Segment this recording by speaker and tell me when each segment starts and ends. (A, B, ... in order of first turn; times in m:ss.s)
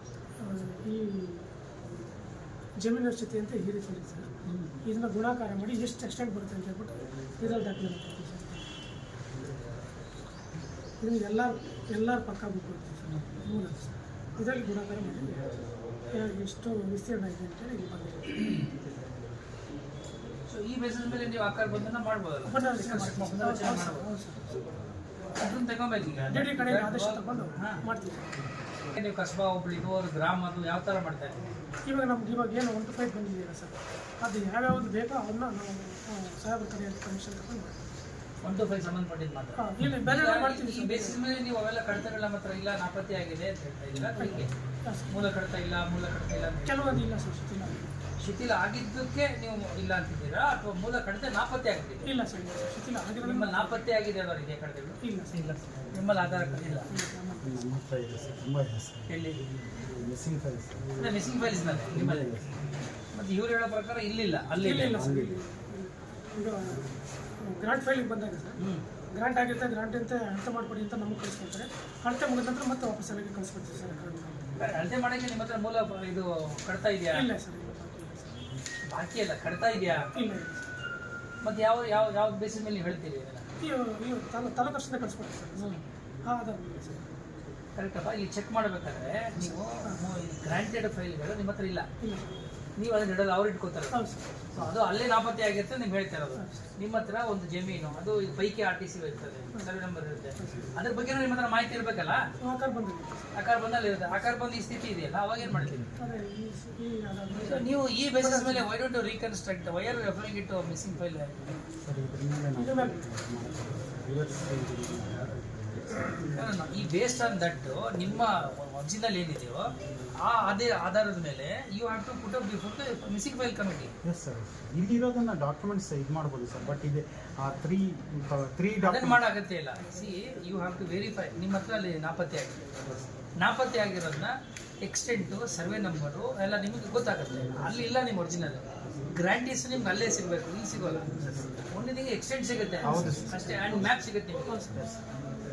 0:00.4-0:01.5 A
0:02.8-0:04.3 A
0:04.5-0:04.8 B
0:04.8-0:08.7 A
0:11.0-0:15.5 A
0:16.1-0:18.6 A
0:20.5-0:24.1 B
0:22.4-0:24.6 A
0:25.4-0:27.8 B
0:26.2-0:28.3 A
0:28.9-0:31.5 B
0:31.8-0:37.8 A
0:38.4-0:44.5 B
0:39.6-0:41.2 A
0:44.2-0:45.2 A
0:45.1-0:46.7 B
0:46.6-0:47.9 A
0:48.2-0:52.1 B
0:52.0-0:54.0 A
0:53.2-0:56.8 B
0:55.0-0:55.6 A
0:56.9-0:57.6 A
0:57.4-1:01.2 C
0:59.1-0:59.4 B
1:01.0-1:02.5 B
1:01.7-1:02.5 C
1:03.1-1:05.0 B
1:04.6-1:06.8 A
1:04.8-1:05.4 C
1:07.4-1:08.6 A
1:09.1-1:14.5 A
1:14.6-1:17.2 B
1:17.1-1:18.5 A
1:18.9-1:20.0 B
1:20.1-1:20.7 A
1:21.4-1:23.5 B
1:23.6-1:25.7 A
1:25.6-1:25.8 B
1:26.3-1:27.2 A
1:27.8-1:31.9 B
1:32.0-1:32.4 A
1:32.8-1:42.2 B
1:33.9-1:34.6 A
1:36.3-1:36.7 A
1:40.4-1:40.7 A
1:42.4-1:43.3 A
1:43.4-1:45.9 B
1:46.0-1:48.7 A
1:47.3-1:51.5 B
1:51.8-1:56.2 C
1:52.5-1:53.1 A
1:56.3-2:03.9 B
2:04.0-2:09.2 C
2:08.8-2:12.6 B
2:13.4-2:24.7 B
2:22.8-2:24.0 C
2:22.9-2:23.2 A
2:24.5-2:24.8 A